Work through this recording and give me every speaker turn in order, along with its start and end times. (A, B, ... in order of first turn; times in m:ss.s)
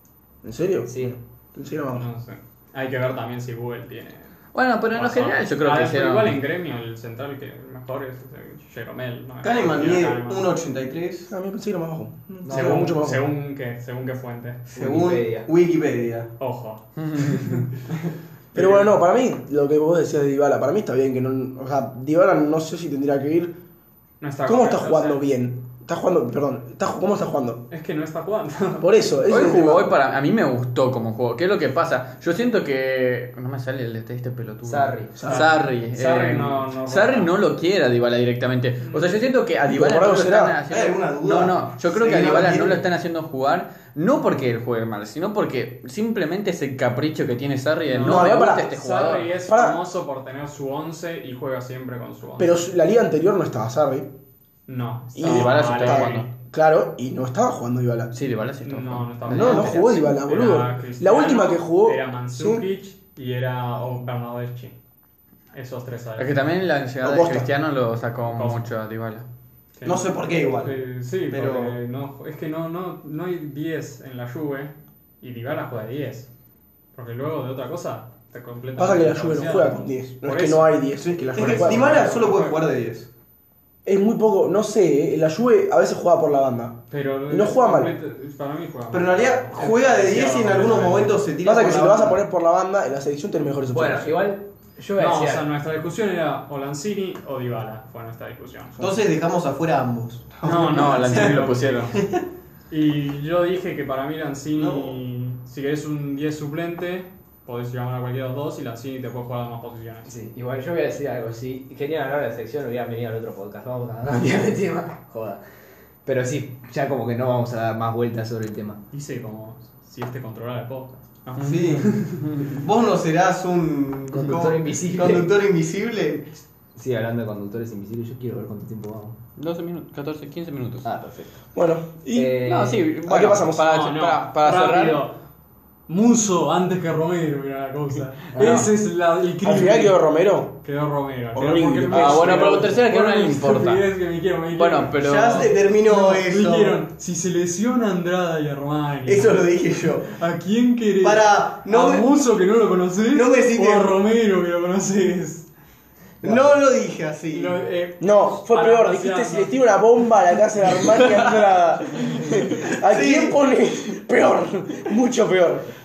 0:00.4-0:02.1 A
0:00.9-0:01.2 B
0:01.9-0:04.3 C
0:04.5-0:06.4 D
0:04.9-0:10.5 C
0:09.4-0:11.3 E
0:11.3-0:13.3 A
0:12.4-0:12.9 B
0:12.5-0:14.6 C
0:14.7-0:16.3 E
0:14.7-0:15.5 B
0:16.4-0:17.7 C
0:17.0-0:17.6 D
0:18.5-0:23.6 A
0:18.6-0:18.9 C
0:24.2-0:25.2 C
0:24.4-0:27.6 A
0:27.7-0:28.9 C
0:28.8-0:29.9 A
0:29.3-0:49.4 D
0:34.7-0:35.1 B
0:35.1-0:35.5 A
0:35.2-0:37.4 C
0:38.8-0:39.2 C
0:39.7-0:40.6 A
0:40.7-0:42.8 E
0:47.8-0:52.6 C
0:48.0-0:48.7 A
0:49.4-0:49.8 A
0:52.4-0:54.1 A
0:54.7-0:56.3 C
0:55.2-0:58.1 A
0:55.2-0:56.3 D
0:58.1-1:00.1 D
0:58.6-1:04.8 C
0:59.3-1:02.6 A
1:05.5-1:06.5 C
1:06.2-1:09.2 D
1:07.0-1:07.5 A
1:08.2-1:08.7 C
1:09.8-1:16.3 C
1:09.8-1:11.8 E
1:16.9-1:22.7 C
1:18.8-1:22.0 A
1:21.0-1:23.1 E
1:23.8-1:28.0 A
1:26.9-1:31.3 C
1:28.9-1:32.2 E
1:31.4-1:34.2 A
1:33.7-1:35.5 B
1:35.0-1:38.8 C
1:38.8-1:42.2 E
1:40.4-1:41.9 C
1:40.6-1:41.9 D
1:42.7-1:50.1 C
1:44.5-1:45.0 E
1:50.1-1:55.4 B
1:56.0-1:58.8 B
1:58.9-2:02.0 C
2:01.4-2:02.6 D
2:01.4-2:06.3 E
2:04.1-2:05.4 B
2:06.7-2:09.2 B
2:09.4-2:10.8 D
2:10.8-2:11.4 B
2:11.5-2:12.5 A
2:12.1-2:12.9 B
2:12.4-2:15.0 D
2:13.0-2:13.6 A
2:13.7-2:15.1 C
2:15.9-2:20.0 C
2:18.3-2:18.7 B
2:18.4-2:18.7 D
2:19.4-2:20.6 A
2:20.6-2:35.5 C
2:21.3-2:22.7 A
2:21.9-2:23.9 D
2:24.5-2:25.5 D
2:24.9-2:26.8 E
2:29.0-2:30.1 E
2:31.0-2:32.2 E
2:33.1-2:34.0 E
2:36.2-2:37.6 E
2:36.2-2:36.5 A
2:37.3-2:39.8 C
2:38.0-2:45.7 A
2:40.6-2:41.4 C
2:42.8-2:43.4 E